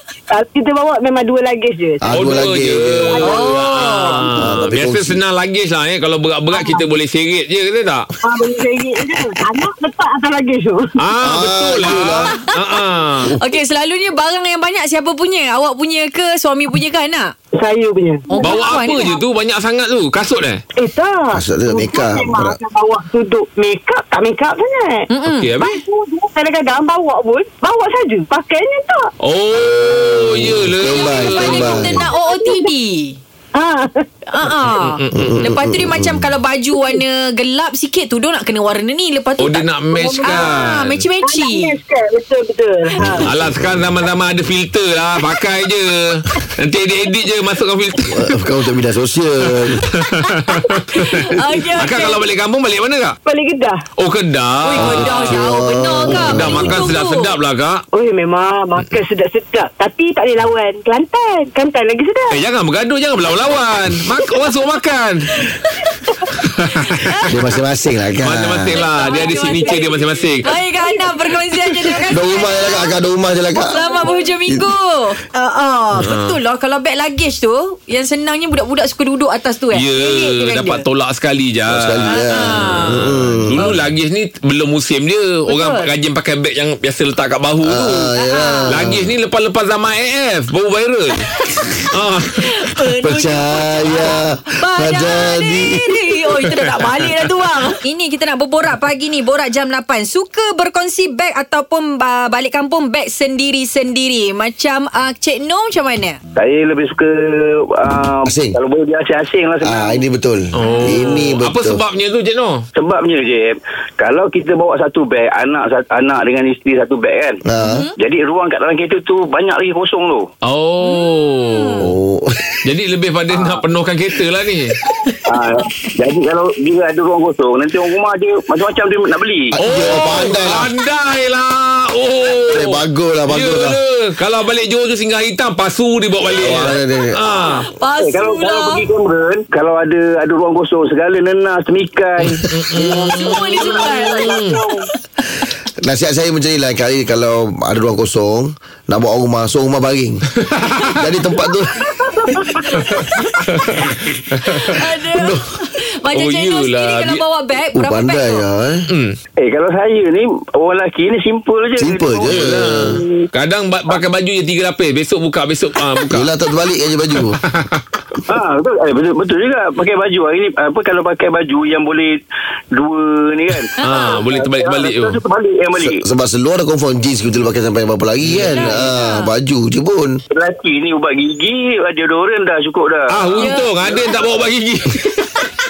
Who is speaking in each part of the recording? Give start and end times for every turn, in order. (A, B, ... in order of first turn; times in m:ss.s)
0:00.3-0:02.0 A
0:02.0-0:03.3 B
0:02.1-0:08.0 C
0:03.2-0:04.3 A
0:03.2-0:04.3 D
0:04.4-0:05.2 B
0:08.2-0:10.9 A
0:11.0-0:13.4 C
0:11.2-0:12.4 B
0:13.4-0:17.3 D
0:17.6-0:19.0 A
0:18.3-0:19.2 D
0:18.4-0:20.6 C
0:20.8-0:25.1 A
0:21.3-0:22.6 B
0:25.1-0:25.5 D
0:25.2-0:25.8 C
0:25.6-0:29.1 A
0:29.2-0:31.8 C
0:29.7-0:32.1 B
0:30.9-0:33.2 D
0:32.1-0:32.7 A
0:33.6-0:34.1 A
0:34.3-0:39.7 D
0:34.8-0:35.4 C
0:35.1-0:36.3 B
0:39.4-0:41.0 C
0:39.9-0:40.5 A
0:40.2-0:41.8 D
0:41.2-0:43.2 A
0:43.0-0:43.9 B
0:43.2-0:48.4 C
0:48.1-0:49.8 B
0:49.6-0:53.2 C
0:50.2-0:52.2 D
0:53.3-0:53.8 A
0:54.0-0:55.4 C
0:54.6-0:57.4 D
0:54.8-0:56.9 B
0:56.1-0:57.8 C
0:57.9-1:02.4 A
1:02.3-1:05.3 C
1:06.4-1:07.0 C
1:07.0-1:07.3 D
1:07.3-1:08.7 B
1:08.2-1:10.5 C
1:08.7-1:12.1 A
1:09.0-1:09.8 D
1:10.4-1:12.9 D
1:12.1-1:13.9 B
1:13.7-1:20.8 D
1:13.7-1:14.3 A
1:16.0-1:16.4 C
1:19.7-1:28.1 C
1:21.7-1:23.8 B
1:22.1-1:23.0 D
1:25.5-1:25.9 D
1:27.6-1:29.1 B
1:28.2-1:28.7 D
1:28.7-1:31.3 C
1:31.8-1:32.5 C
1:32.4-1:46.2 D
1:33.0-1:36.0 B
1:46.4-1:50.0 E
1:48.2-1:48.6 B
1:49.6-1:51.8 B
1:50.6-1:52.7 C
1:50.6-1:51.2 D
1:52.8-1:57.4 E
1:57.4-1:57.9 B
1:57.6-1:57.9 D
1:58.0-2:00.2 E
2:00.4-2:01.9 C
2:00.8-2:01.9 D
2:01.8-2:02.6 B
2:02.6-2:04.8 C
2:03.3-2:03.6 E
2:05.3-2:09.5 E
2:09.5-2:10.7 B
2:09.6-2:17.7 C
2:12.5-2:13.8 B
2:16.4-2:17.2 B
2:17.8-2:18.8 D
2:18.0-2:24.6 E
2:22.3-2:24.6 C
2:22.9-2:24.5 D
2:24.0-2:24.8 A
2:25.8-2:30.3 B
2:30.4-2:31.0 C
2:30.9-2:31.9 B
2:31.8-2:33.4 A
2:32.8-2:33.4 D
2:33.5-2:34.8 C
2:34.6-2:38.4 D
2:35.1-2:35.4 B
2:36.1-2:37.2 C
2:37.7-2:38.9 B
2:38.9-2:39.2 C
2:39.4-2:43.3 E
2:41.8-2:43.0 B
2:42.3-2:46.3 C
2:46.1-2:47.4 B
2:47.3-2:47.8 C
2:48.3-2:52.2 E
2:52.7-2:56.0 E
2:53.8-2:55.2 C
2:53.8-2:54.2 D
2:55.8-3:00.2 B
2:58.2-2:58.8 C
2:58.5-2:59.3 D
3:00.3-3:03.3 E
3:03.1-3:05.3 C
3:03.4-3:04.1 D